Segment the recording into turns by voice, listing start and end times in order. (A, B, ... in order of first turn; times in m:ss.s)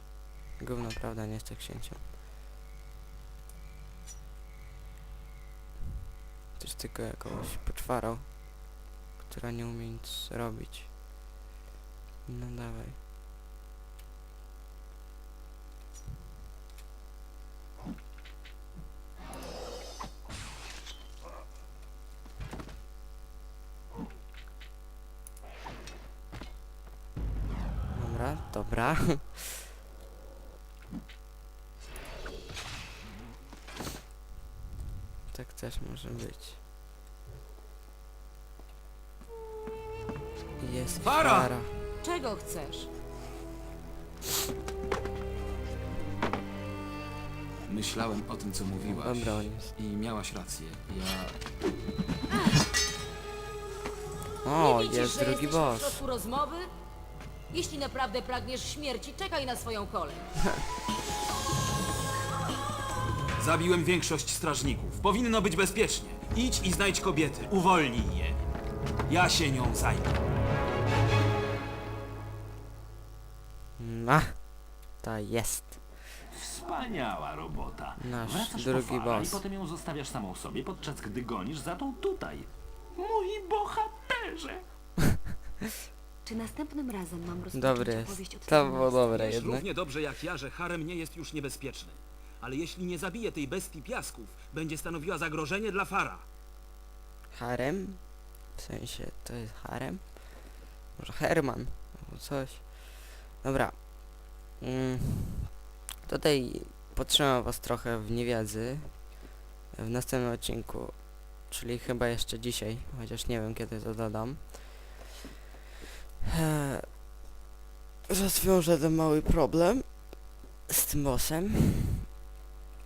0:00.6-0:02.0 A
0:06.6-0:10.9 A
0:12.2-0:13.0 A
0:27.9-0:29.6 A
0:35.3-0:36.6 A
0:40.6-0:41.9 A
0:41.0-0:41.5 B
0:42.0-0:42.9 C
0:47.6-0:51.4 D
0:48.8-0:49.8 A
0:54.4-0:56.0 A
0:54.5-0:56.7 C
0:57.5-1:00.3 C
1:03.4-1:08.4 B
1:09.1-1:10.1 B
1:13.8-1:15.8 A
1:16.3-1:24.6 E
1:18.0-1:19.4 A
1:26.2-1:29.1 F
1:27.5-1:29.6 A
1:29.1-1:36.2 B
1:37.3-1:45.5 A
1:46.0-1:55.0 A
1:56.2-1:56.9 A
1:58.1-2:02.0 A